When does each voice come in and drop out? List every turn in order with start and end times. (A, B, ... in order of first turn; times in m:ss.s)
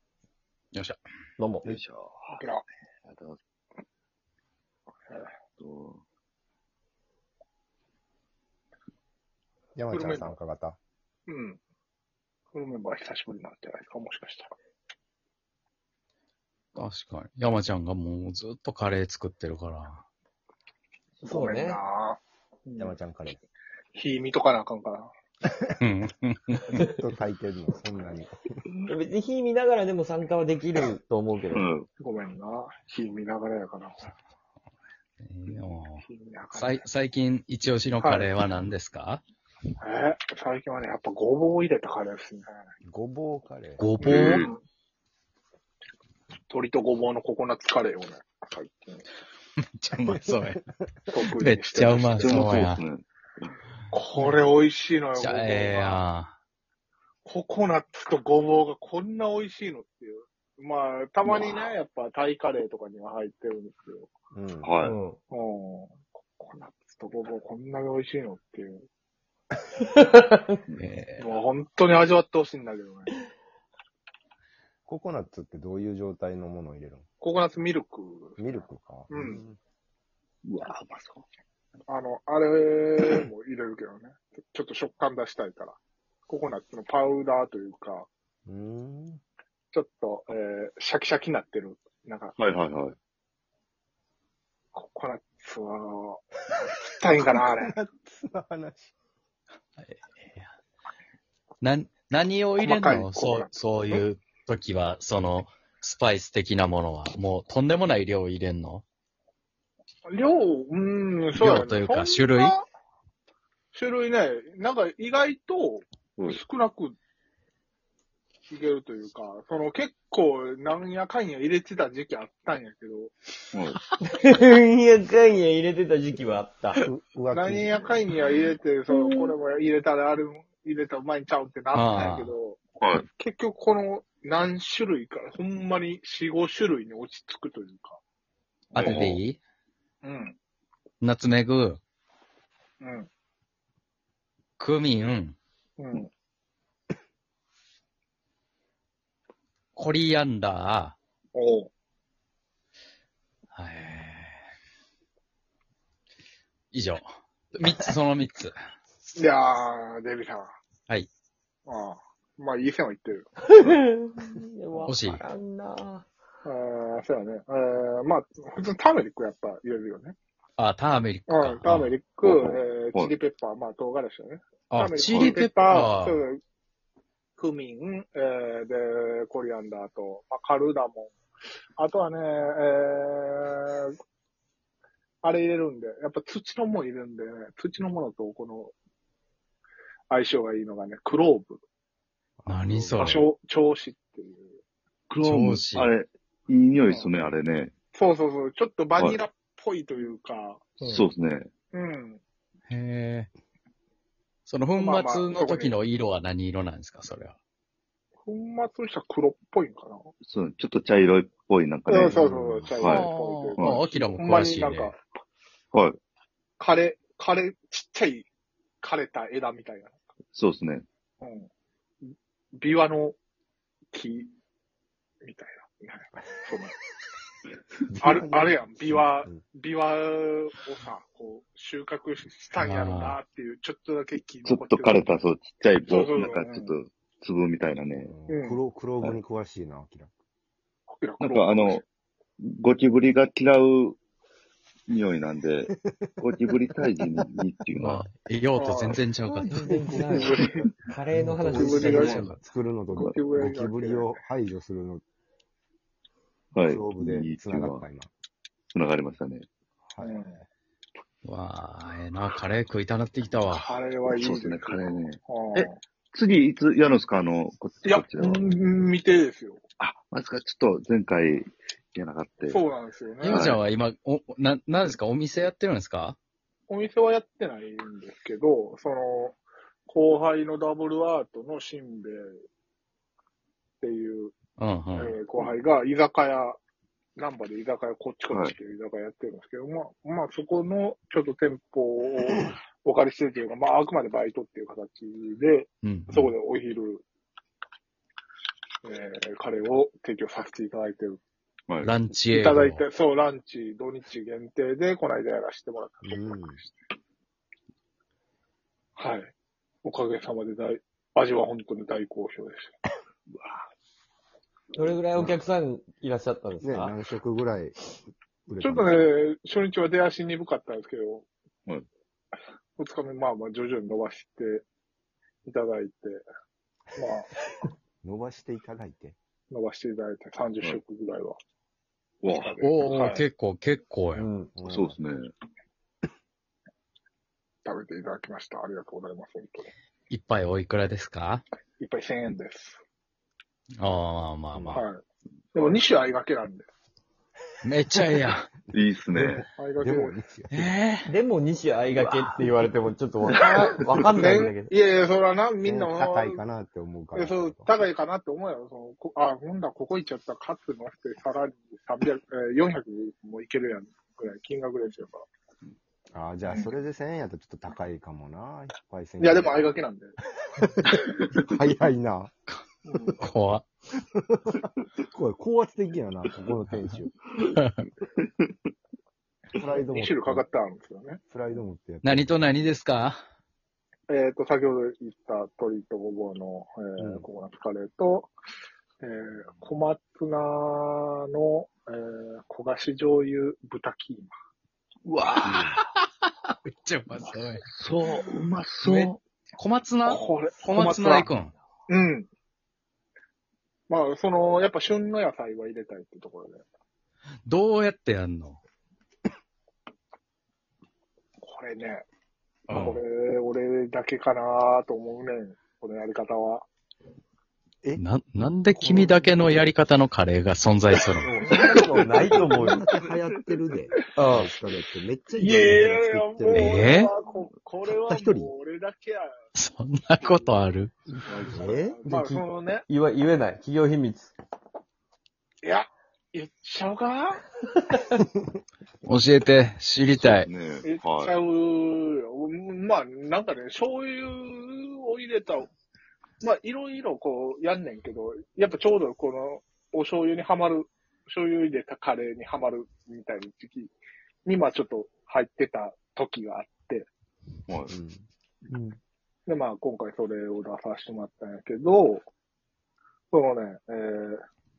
0:01.4-0:01.7 A
0:01.6-0:02.1 B
0:02.4-0:02.6 C
0:03.1-0:03.4 B
0:05.6-0:06.0 B
0:09.8-0:10.8 D
0:09.9-0:10.4 C
0:11.3-0:11.6 C
0:12.5-0:14.5 C
0:16.8-0:20.0 E
0:21.2-0:21.8 A
0:21.2-0:23.0 C
0:22.8-0:23.4 D
0:23.9-0:25.1 C
0:25.8-0:26.7 E
0:26.7-0:28.4 D
0:28.9-0:31.6 A
0:31.5-0:31.9 B
0:32.0-0:34.1 C
0:35.2-0:36.0 E
0:36.0-0:36.9 C
0:36.5-0:39.2 E
0:38.0-0:38.3 C
0:39.8-0:42.5 C
0:42.8-0:43.9 D
0:43.8-0:44.5 E
0:44.0-0:44.6 C
0:44.0-0:44.5 B
0:46.5-0:49.0 C
0:49.8-0:50.6 E
0:50.0-0:51.2 D
0:51.1-0:52.6 C
0:51.4-0:52.8 E
0:51.8-0:53.0 B
0:53.9-0:56.0 C
0:55.2-0:56.4 E
0:57.2-1:04.1 C
1:04.3-1:04.7 D
1:04.6-1:05.0 B
1:04.8-1:05.2 A
1:05.3-1:08.8 C
1:09.8-1:10.6 A
1:10.8-1:11.2 E
1:11.2-1:13.2 C
1:14.9-1:17.0 D
1:17.2-1:19.4 C
1:18.4-1:19.6 D
1:20.4-1:21.2 B
1:21.9-1:25.8 C
1:26.3-1:28.1 C
1:28.5-1:29.2 D
1:29.7-1:32.4 C
1:32.4-1:33.0 B
1:34.7-1:37.8 C
1:37.2-1:38.9 D
1:39.8-1:40.5 E
1:41.6-1:48.8 E
1:42.6-1:44.1 C
1:50.1-1:52.7 C
1:51.4-1:52.6 E
1:53.7-1:57.0 C
1:58.5-2:03.1 C
2:03.5-2:03.8 B
2:04.0-2:06.9 A
2:06.8-2:07.9 D
2:07.3-2:18.0 C
2:08.9-2:09.4 A
2:11.7-2:12.3 E
2:18.7-2:19.1 C
2:18.8-2:19.4 E
2:18.8-2:19.2 B
2:20.0-2:20.4 C
2:21.0-2:21.8 E
2:22.8-2:23.1 C
2:24.6-2:25.4 E
2:25.8-2:26.1 C
2:29.8-2:31.0 E
2:31.3-2:31.7 C
2:33.5-2:34.4 E
2:36.7-2:37.0 E
2:37.6-2:38.6 E
2:39.2-2:40.5 C
2:41.7-2:43.4 C
2:43.5-2:46.1 A
2:44.9-2:45.2 E
2:46.4-2:50.2 C
2:50.6-2:52.0 E
2:51.3-2:56.4 C
2:52.2-2:53.1 B
2:54.7-2:56.2 E
2:55.1-2:55.4 B
2:57.4-3:01.2 C
3:01.8-3:04.0 C
3:05.2-3:08.7 C
3:10.1-3:11.6 C
3:12.4-3:13.2 D
3:12.5-3:13.2 E
3:13.0-3:14.6 C
3:15.1-3:17.7 B
3:15.2-3:15.9 E
3:16.9-3:17.1 C
3:17.9-3:21.1 C
3:20.8-3:21.5 B
3:21.7-3:22.2 C
3:22.7-3:23.3 E
3:24.5-3:27.4 E
3:24.8-3:25.8 C
3:28.2-3:30.1 C
3:30.2-3:33.8 B
3:31.9-3:35.1 C
3:32.2-3:32.7 D
3:32.8-3:34.9 E
3:35.7-3:36.0 B
3:36.6-3:38.3 C
3:38.8-3:40.0 C
3:40.3-3:40.9 B
3:41.2-3:41.5 C
3:42.1-3:43.2 C
3:43.9-3:44.3 C
3:45.2-3:46.7 C
3:48.0-3:49.4 D
3:48.0-3:55.1 C
3:52.6-3:53.2 E
3:54.5-3:58.1 B
3:55.9-3:56.7 C
3:58.0-4:00.1 D
3:58.3-3:58.6 C
4:00.9-4:01.8 C
4:01.2-4:01.8 B
4:02.4-4:04.0 B
4:04.9-4:08.1 B
4:07.8-4:09.9 E
4:08.6-4:09.0 C
4:09.2-4:12.3 A
4:10.0-4:10.7 C
4:11.1-4:15.0 D
4:11.5-4:12.3 C
4:11.9-4:12.4 E
4:12.9-4:14.2 C
4:16.5-4:17.8 B
4:16.6-4:18.1 D
4:18.7-4:19.5 B
4:19.9-4:20.3 D
4:20.0-4:20.4 C
4:21.2-4:23.7 E
4:23.5-4:25.8 C
4:24.1-4:28.5 B
4:27.8-4:29.6 C
4:29.8-4:32.6 B
4:32.5-4:33.6 C
4:33.2-4:36.2 E
4:33.3-4:33.6 B
4:36.7-4:42.4 C
4:43.8-4:44.4 C
4:44.6-4:45.1 E
4:44.9-4:46.6 C
4:47.2-4:57.0 C
4:55.8-4:56.3 E
4:58.8-5:01.2 C
5:01.8-5:02.8 E
5:02.3-5:06.8 C
5:06.1-5:06.6 D
5:09.0-5:09.3 C
5:09.8-5:12.8 C
5:14.7-5:17.0 A
5:16.6-5:17.8 D
5:18.5-5:19.1 D
5:18.6-5:21.3 C
5:22.8-5:24.6 C
5:25.4-5:26.2 C
5:27.0-5:27.3 C
5:28.0-5:29.2 D
5:29.5-5:31.4 C
5:32.2-5:32.5 B
5:32.3-5:33.3 C
5:32.6-5:34.3 E
5:34.2-5:34.6 A
5:34.6-5:35.0 D
5:34.7-5:35.3 B
5:37.6-5:39.7 C
5:40.1-5:41.4 E
5:41.8-5:42.8 C
5:43.8-5:44.8 E
5:44.5-5:44.8 D
5:44.8-5:46.7 C
5:47.6-5:48.5 E
5:48.7-5:49.5 B
5:49.1-5:50.7 D
5:49.6-5:50.2 C
5:50.5-5:51.1 E
5:51.0-5:54.7 A
5:51.9-5:52.3 E
5:54.1-5:56.4 C
5:55.6-5:57.7 D
5:57.2-6:05.2 C
6:06.1-6:09.7 D
6:06.5-6:06.7 C
6:09.2-6:10.2 C
6:10.6-6:12.3 D
6:12.8-6:13.2 C
6:13.2-6:13.6 E
6:14.2-6:17.1 D
6:17.4-6:17.9 E
6:18.2-6:18.5 B
6:19.5-6:20.4 D
6:19.8-6:21.2 C
6:21.3-6:22.4 D
6:22.0-6:23.2 E
6:24.1-6:28.3 C
6:27.0-6:27.3 D
6:29.0-6:34.3 C
6:35.1-6:35.8 B
6:35.4-6:35.9 E
6:36.5-6:37.7 E
6:37.8-6:39.2 B
6:38.8-6:41.6 E
6:40.0-6:41.3 C
6:41.9-6:42.3 C
6:43.9-6:46.6 C
6:47.5-6:48.6 E
6:51.4-6:52.0 C
6:52.7-6:53.0 E
6:52.7-6:56.7 C
6:58.0-7:01.3 E
6:58.8-6:59.6 D
7:01.2-7:02.9 A
7:01.5-7:06.9 D
7:04.2-7:04.5 A
7:05.4-7:09.3 C
7:06.6-7:07.1 E
7:07.9-7:08.5 D
7:09.6-7:10.9 E
7:10.2-7:10.6 C
7:11.1-7:12.0 D
7:11.2-7:12.9 C
7:12.0-7:14.3 A
7:15.6-7:17.4 C
7:19.0-7:20.5 E
7:20.2-7:21.4 B
7:20.8-7:25.7 C
7:26.4-7:37.1 C
7:37.7-7:37.9 B
7:37.9-7:38.2 D
7:38.7-7:39.0 A
7:39.5-7:42.2 C
7:43.3-7:44.4 C